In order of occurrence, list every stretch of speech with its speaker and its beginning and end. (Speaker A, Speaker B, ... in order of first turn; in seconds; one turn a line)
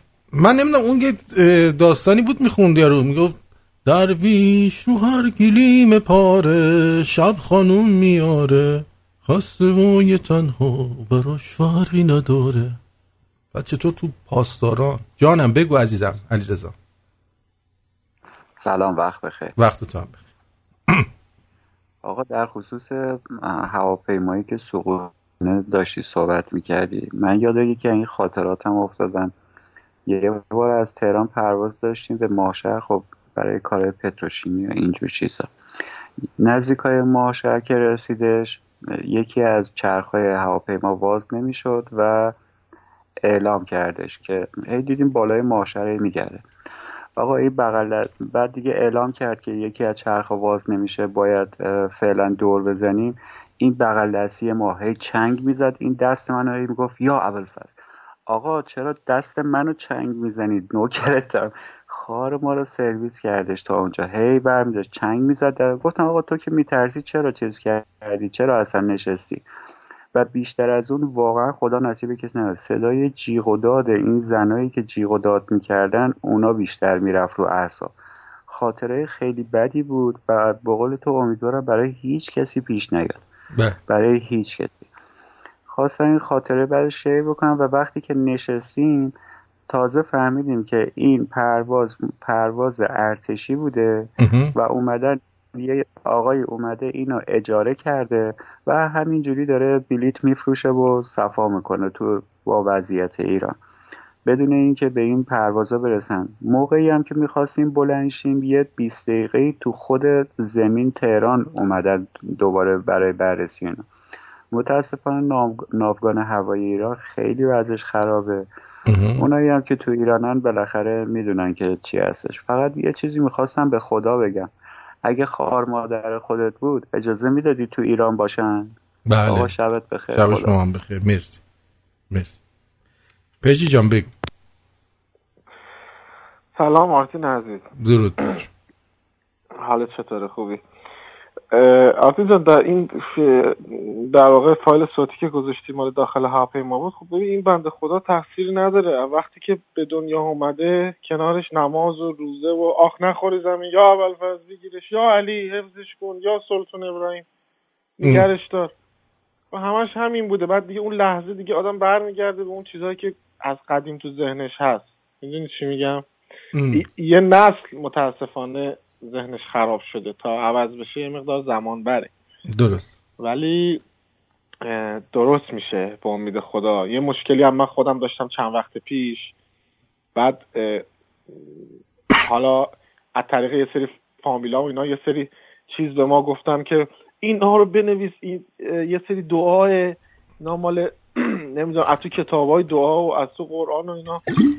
Speaker A: 0.3-12.8
Speaker A: 13.5-16.7
Speaker B: 18.6-19.5
Speaker A: 19.6-20.2
Speaker B: 22.0-29.3
Speaker B: 30.1-35.5
Speaker B: 36.4-42.3
Speaker B: 43.2-46.4
Speaker B: 47.2-69.5
Speaker B: 70.1-77.9
Speaker B: 78.5-83.2
Speaker B: 83.9-84.9
Speaker B: 85.7-89.1
Speaker B: 89.7-103.6
Speaker A: 94.2-94.5
Speaker B: 104.2-113.8
Speaker B: 114.5-118.5
Speaker A: 118.9-119.2
Speaker B: 119.2-124.5
Speaker B: 125.0-130.6
Speaker A: 129.1-129.5
Speaker A: 130.1-131.4
Speaker A: 132.1-132.4
Speaker A: 133.4-134.1
Speaker C: 136.5-137.7
Speaker A: 137.8-138.3
Speaker C: 139.6-140.6
Speaker C: 141.5-157.2
Speaker C: 158.0-158.7
Speaker C: 159.5-166.0
Speaker A: 166.5-166.8
Speaker C: 166.7-172.1
Speaker A: 172.5-172.9
Speaker C: 173.2-173.8
Speaker C: 174.6-179.3
Speaker C: 180.2-181.6
Speaker C: 182.2-194.2